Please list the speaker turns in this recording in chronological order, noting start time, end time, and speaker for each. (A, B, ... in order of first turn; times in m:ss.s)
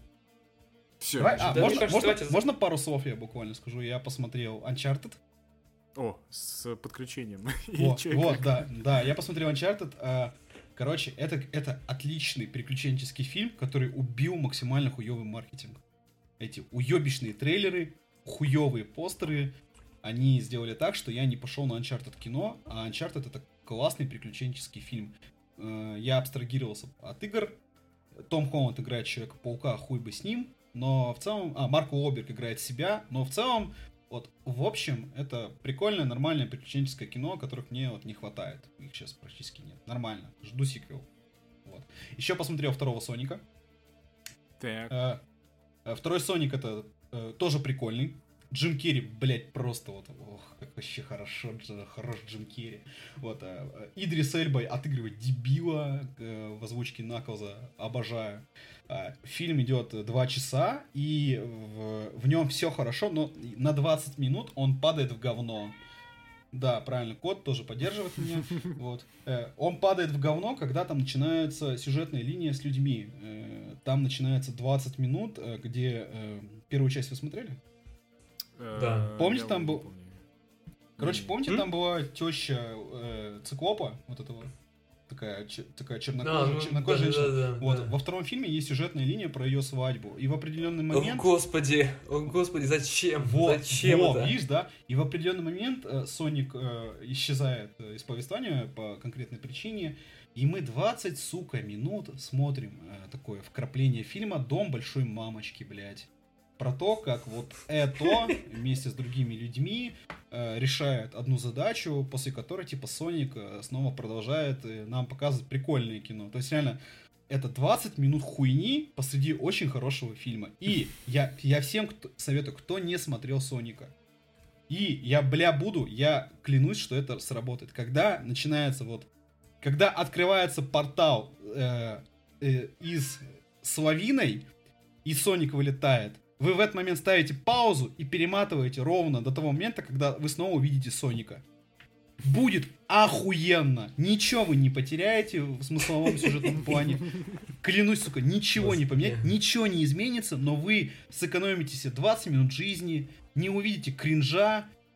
0:01.0-0:01.9 A
0:01.2-0:05.2 B
0:01.4-0:02.4 C
0:06.0-0:08.7 A
0:07.8-0:15.8 B
0:16.4-0:27.6 B
0:28.3-0:41.1 B
0:41.6-0:43.4 B
0:44.6-0:45.0 A
0:44.9-0:45.2 B
0:45.8-1:05.8 B
1:06.5-1:17.6 B
1:18.6-1:20.2 A
1:18.8-1:19.1 C
1:19.2-1:19.9 B
1:21.0-1:21.3 A
1:21.0-1:24.5 B
1:25.1-1:31.3 B
1:26.2-1:27.9 C
1:30.9-1:34.4 C
1:33.2-2:03.9 B
2:04.7-2:09.1 B
2:09.6-2:14.5 B
2:15.0-2:21.4 B
2:22.2-2:34.7 B
2:28.6-2:29.3 C